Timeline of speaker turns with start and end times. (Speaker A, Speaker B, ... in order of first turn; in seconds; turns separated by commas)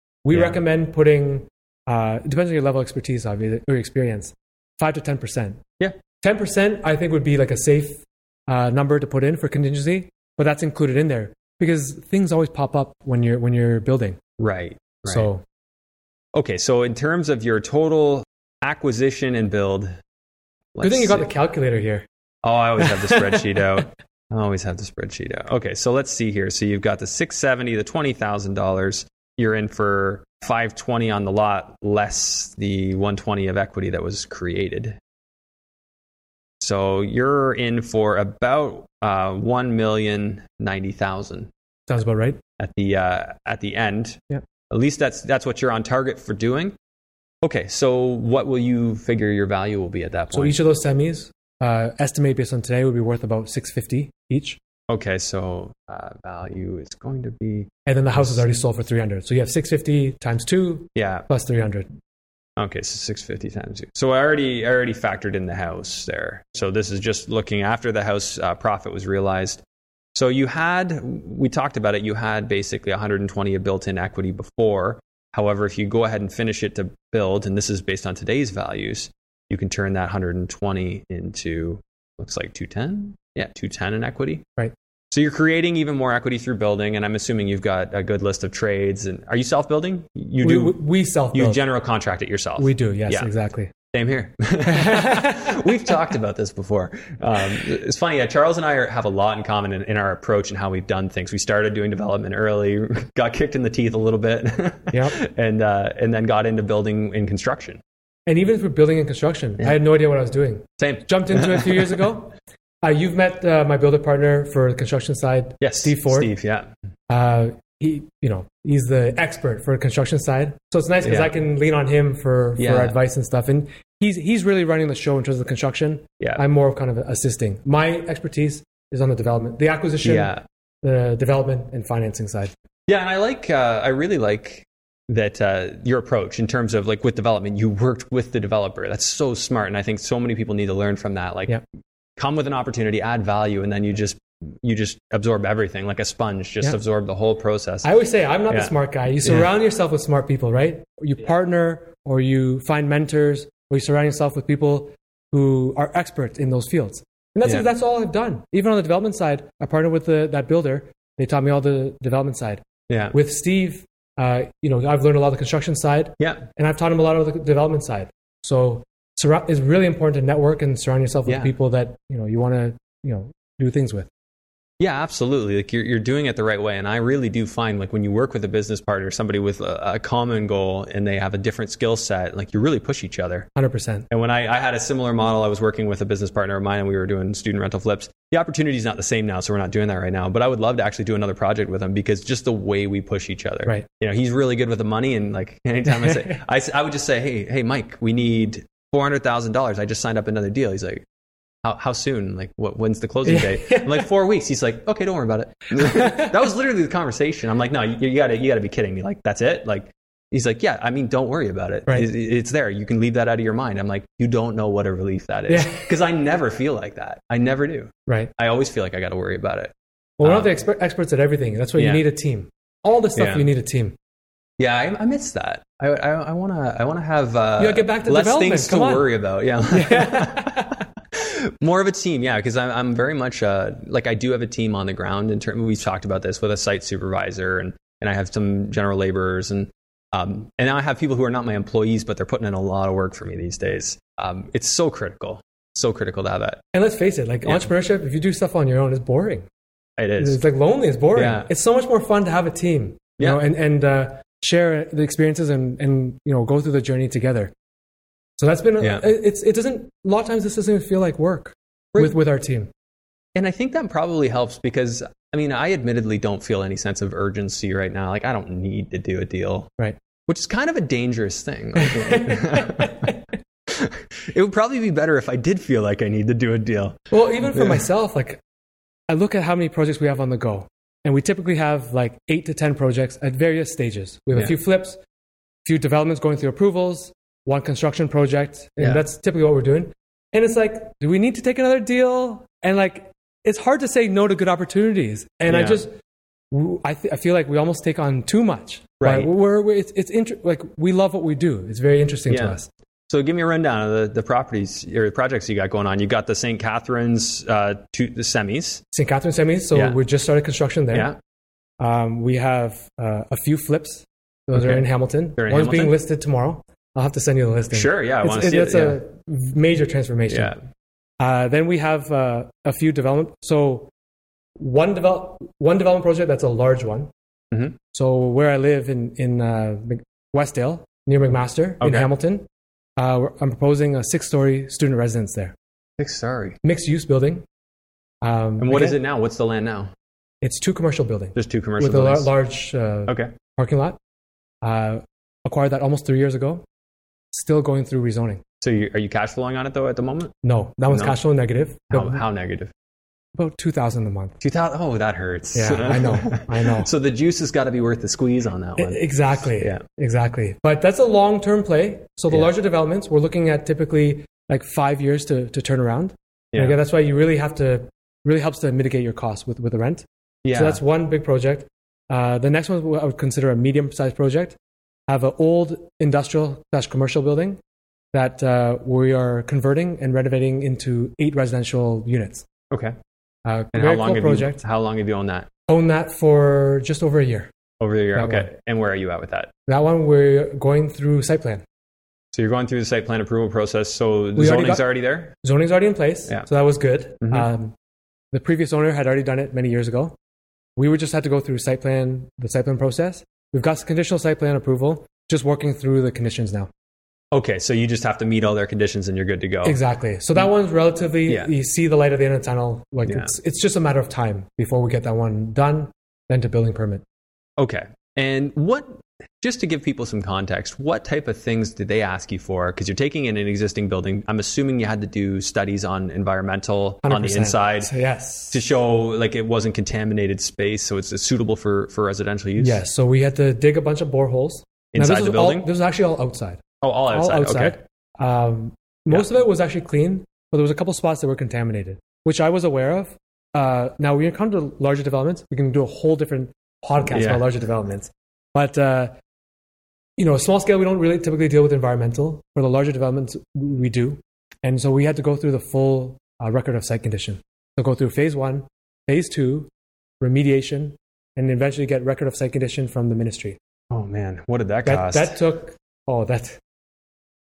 Speaker A: 0.2-5.6, Speaker B: 0.3-0.6, Speaker A: 6.2-14.2, Speaker B: 14.4-15.3, Speaker A: 15.1-15.4, Speaker B: 16.3-19.9, Speaker B: 20.7-21.3, Speaker A: 20.8-22.0, Speaker B: 22.4-35.0, Speaker A: 22.8-23.4, Speaker B: 36.6-41.5, Speaker A: 41.9-42.4, Speaker B: 42.6-46.7, Speaker B: 47.4-50.5, Speaker A: 50.3-54.6, Speaker B: 54.9-58.4, Speaker A: 57.9-61.9, Speaker B: 60.9-61.2, Speaker B: 62.6-69.6, Speaker B: 70.1-84.4, Speaker B: 85.1-90.8, Speaker A: 90.4-91.6, Speaker B: 91.3-93.3, Speaker A: 92.6-93.7, Speaker B: 93.9-107.8, Speaker A: 94.6-95.7, Speaker A: 104.9-105.2, Speaker A: 108.2-116.3, Speaker B: 110.8-112.0, Speaker B: 115.6-116.7, Speaker A: 117.1-130.3, Speaker B: 121.0-121.3, Speaker B: 122.6-123.0, Speaker B: 130.0-130.4, Speaker A: 130.8-132.5, Speaker B: 132.9-141.6, Speaker B: 142.2-147.9, Speaker A: 147.8-162.6, Speaker B: 149.2-149.5, Speaker B: 162.9-163.2, Speaker A: 163.1-174.1, Speaker B: 166.2-166.5, Speaker B: 171.3-171.5, Speaker B: 174.8-183.5, Speaker A: 183.6-184.0, Speaker B: 184.1-201.0, Speaker A: 195.8-196.4, Speaker B: 201.6-220.5, Speaker A: 203.2-204.1, Speaker A: 205.8-206.3, Speaker A: 215.5-215.9, Speaker A: 220.2-223.9, Speaker B: 221.8-222.0, Speaker B: 223.2-223.5, Speaker B: 224.6-246.6, Speaker A: 227.6-229.1, Speaker A: 229.7-230.7, Speaker A: 246.7-249.4, Speaker B: 250.0-250.4, Speaker A: 250.2-257.5, Speaker B: 251.1-251.5, Speaker A: 258.4-262.7, Speaker B: 258.8-259.1, Speaker B: 263.3-269.7, Speaker B: 270.3-273.1, Speaker A: 271.8-273.1, Speaker B: 273.7-277.8, Speaker A: 277.1-278.4, Speaker A: 279.1-285.0, Speaker A: 285.6-295.9, Speaker B: 295.5-295.8, Speaker A: 296.5-302.7, Speaker B: 299.0-299.3, Speaker B: 302.3-302.6, Speaker B: 303.1-308.8, Speaker A: 308.9-311.1, Speaker B: 310.9-311.2, Speaker A: 311.8-320.5, Speaker B: 314.5-314.8, Speaker B: 315.4-316.0, Speaker B: 317.7-319.0, Speaker B: 320.3-320.6, Speaker A: 321.2-323.9, Speaker A: 324.6-327.1, Speaker A: 327.9-332.4, Speaker B: 331.8-332.1, Speaker A: 333.0-335.5, Speaker B: 336.0-336.6, Speaker A: 336.6-337.4, Speaker A: 338.2-339.0, Speaker B: 338.6-339.9, Speaker A: 340.4-344.0, Speaker B: 341.3-342.3, Speaker B: 343.1-343.3, Speaker A: 344.6-346.6, Speaker A: 347.3-348.4, Speaker B: 348.6-350.3, Speaker A: 350.4-352.2, Speaker B: 350.9-351.2, Speaker B: 351.9-352.7, Speaker A: 353.3-354.4, Speaker B: 354.4-359.8, Speaker A: 355.5-356.9, Speaker A: 358.8-374.6, Speaker B: 366.5-366.8, Speaker B: 370.4-370.8, Speaker A: 375.1-377.6, Speaker A: 378.1-382.4, Speaker B: 382.7-382.9, Speaker A: 383.4-384.6, Speaker B: 383.7-385.5, Speaker A: 385.7-387.5, Speaker B: 387.8-389.5, Speaker A: 388.1-388.5, Speaker A: 389.7-391.6, Speaker B: 392.3-395.3, Speaker A: 394.4-394.8, Speaker A: 395.4-397.7, Speaker A: 398.3-400.1, Speaker A: 400.8-406.7, Speaker B: 407.3-409.8, Speaker A: 409.6-417.0, Speaker B: 413.1-413.3, Speaker B: 417.6-427.9, Speaker A: 427.0-428.6, Speaker B: 428.5-432.8, Speaker A: 432.6-449.1, Speaker B: 434.9-435.7, Speaker B: 436.8-437.8, Speaker B: 447.1-447.5, Speaker A: 450.2-459.7, Speaker A: 460.2-463.6, Speaker B: 463.9-465.4, Speaker A: 464.8-466.6